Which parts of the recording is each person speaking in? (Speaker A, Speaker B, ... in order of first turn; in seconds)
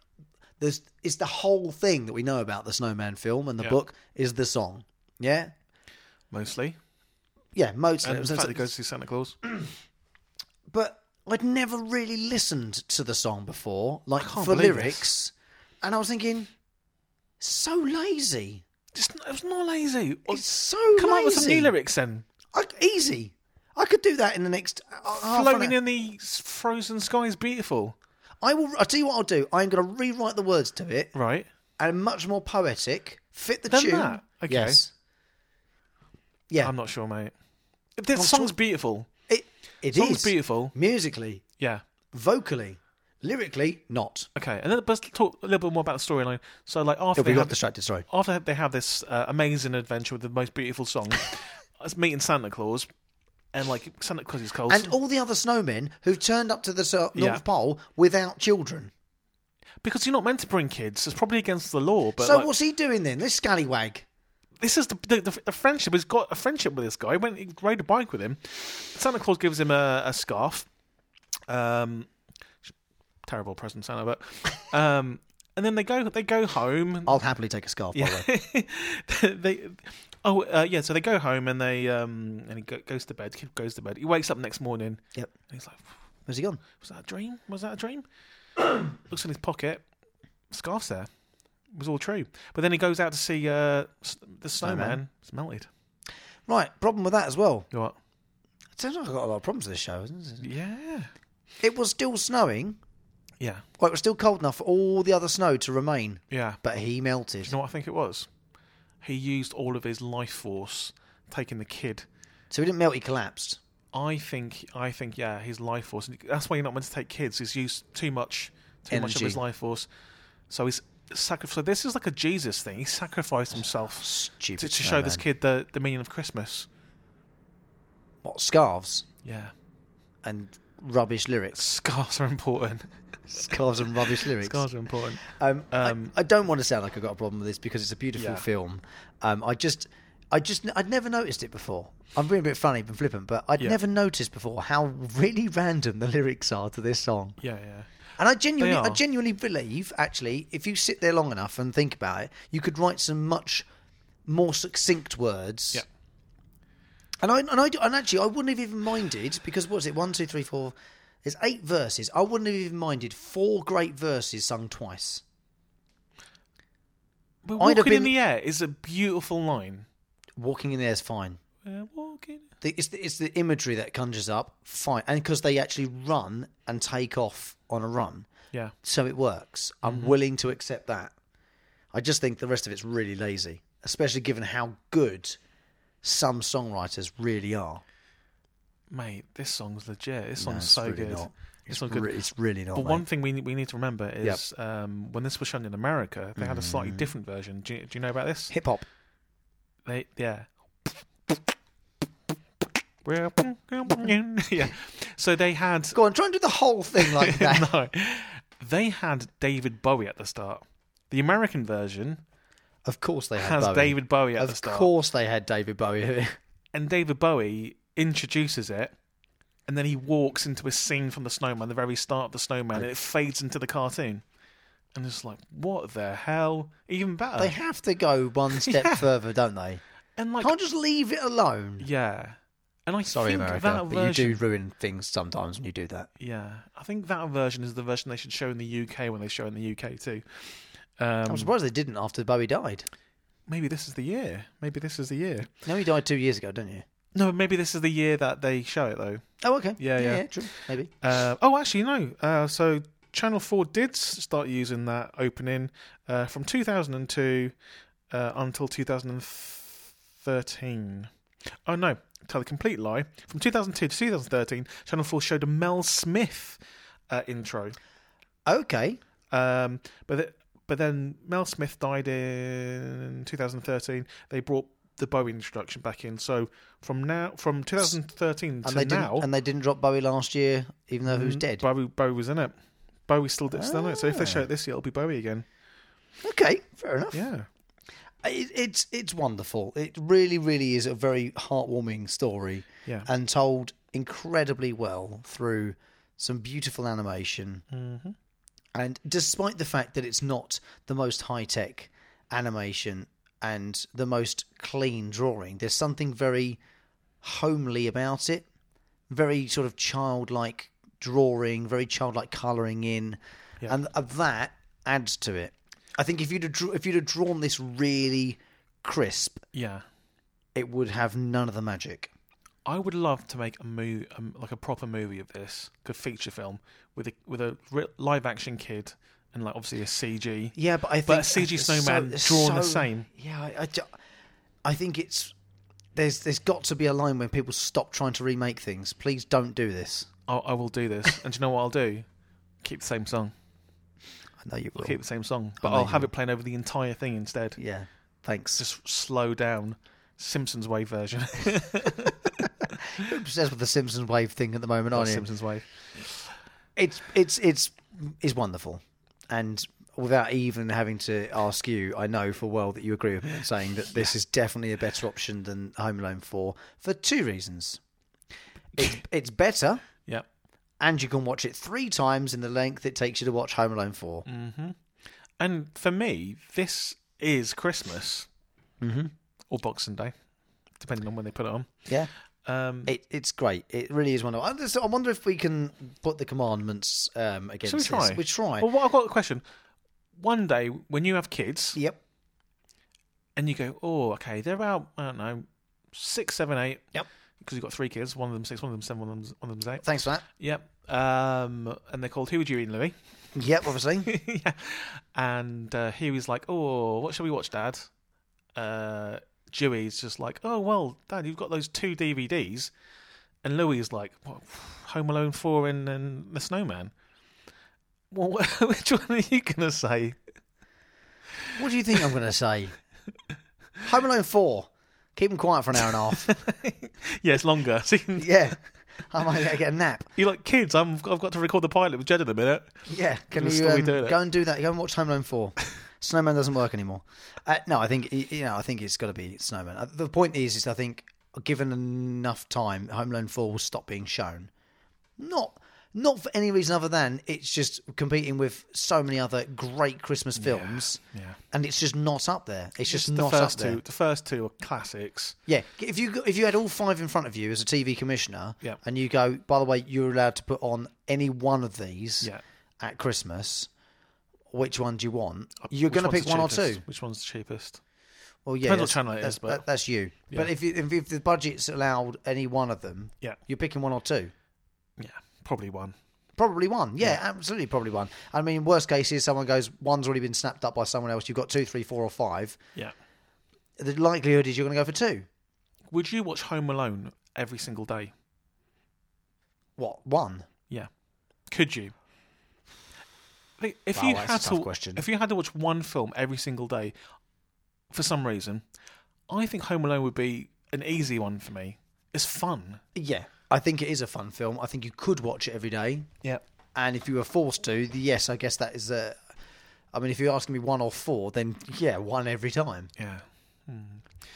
Speaker A: 0.6-5.5, 7.5-8.7, 10.7-16.5, 17.4-18.6, 20.3-21.7, 22.5-25.8, 28.4-31.1, 31.8-34.9, 38.1-38.5, 39.3-41.4, 42.1-44.3, 47.2-48.0, 54.7-58.9, 62.2-64.0, 77.0-78.3, 86.3-86.6, 94.6-95.0, 96.5-97.7, 98.8-100.5, 101.6-102.8, 103.8-107.5, 112.5-113.6, 118.9-119.4, 124.0-125.2, 128.2-129.1, 130.2-131.6, 133.3-134.6, 135.2-147.4, 148.2-153.7, 154.3-155.8, 157.2-165.2, 167.6-168.1, 170.4-171.4, 172.6-178.3, 178.8-181.1, 181.9-185.4, 186.0-187.8, 190.4-193.0, 196.4-197.1, 198.5-198.8, 205.9-207.7, 212.8-216.4, 227.4-229.8, 230.4-231.9, 233.1-236.1, 241.3-242.9, 245.6-246.8, 249.4-250.9, 268.4-269.0, 278.6-281.6, 283.5-284.5, 286.2-287.3, 288.2-297.6, 298.7-306.6, 307.2-308.4, 309.1-319.4, 320.6-322.1, 330.6-333.9, 334.6-335.3, 335.9-340.1, 344.4-345.0, 345.6-346.1, 347.6-348.6, 352.8-355.3, 356.8-367.8, 368.7-369.8, 370.8-374.2, 378.8-379.1, 382.9-388.7, 391.7-392.0, 399.8-400.2, 403.3-404.1, 421.6-422.7, 423.8-426.3, 428.2-430.1, 432.9-444.5, 445.2-451.0, 451.5-453.8, 455.5-463.7, 464.5-466.8, 468.4-474.3, 476.4-482.6, 483.8-485.3, 489.8-490.5, 493.9-495.1, 502.9-506.1, 506.7-509.2, 509.9-512.9
Speaker B: 6.3-6.8, 8.0-9.4, 14.2-15.1, 18.9-22.2, 25.1-27.9, 31.1-31.5, 33.7-34.8, 36.6-37.3, 38.0-39.1, 39.9-40.7, 41.6-41.8, 44.3-47.6, 48.1-52.9, 53.5-54.9, 57.1-57.4, 59.8-62.5, 64.6-70.7, 71.5-72.1, 73.2-77.2, 77.9-85.9, 86.8-88.0, 88.9-89.8, 90.5-91.1, 91.7-95.7, 97.7-98.0, 100.4-101.1, 103.4-103.6, 106.3-106.6, 107.4-108.3, 109.0-112.0, 113.9-119.9, 120.5-126.7, 129.2-129.5, 131.5-133.5, 134.2-136.1, 138.2-138.4, 147.4-147.9, 148.6-149.0, 167.4-169.9, 171.6-172.5, 179.8-180.1, 188.9-192.1, 192.7-198.5, 199.9-201.0, 203.0-206.0, 207.0-212.2, 213.4-214.9, 216.7-218.9, 219.7-224.2, 224.9-227.5, 228.5-229.1, 230.2-230.5, 231.8-234.4, 236.2-241.5, 243.5-245.5, 247.1-249.2, 249.8-250.3, 251.0-257.5, 258.1-261.1, 261.7-266.6, 267.1-267.8, 269.3-279.3, 281.1-282.6, 283.1-285.4, 287.1-287.5, 297.7-298.2, 319.5-319.8, 322.6-333.1, 340.3-342.1, 342.6-343.3, 344.8-347.6, 348.6-352.4, 354.9-355.6, 374.3-374.8, 375.4-378.3, 379.5-380.1, 380.8-381.7, 382.4-382.9, 387.6-389.4, 390.2-391.8, 393.4-396.8, 397.4-402.9, 404.0-407.9, 408.6-412.7, 413.4-416.9, 418.1-420.2, 426.2-428.5, 430.2-432.8, 433.3-434.2, 450.4-451.4, 452.9-455.4, 465.6-467.8, 468.6-469.6, 475.0-475.9, 485.9-488.1, 491.5-491.9, 493.6-496.9, 497.9-498.6, 499.3-502.8, 513.0-514.1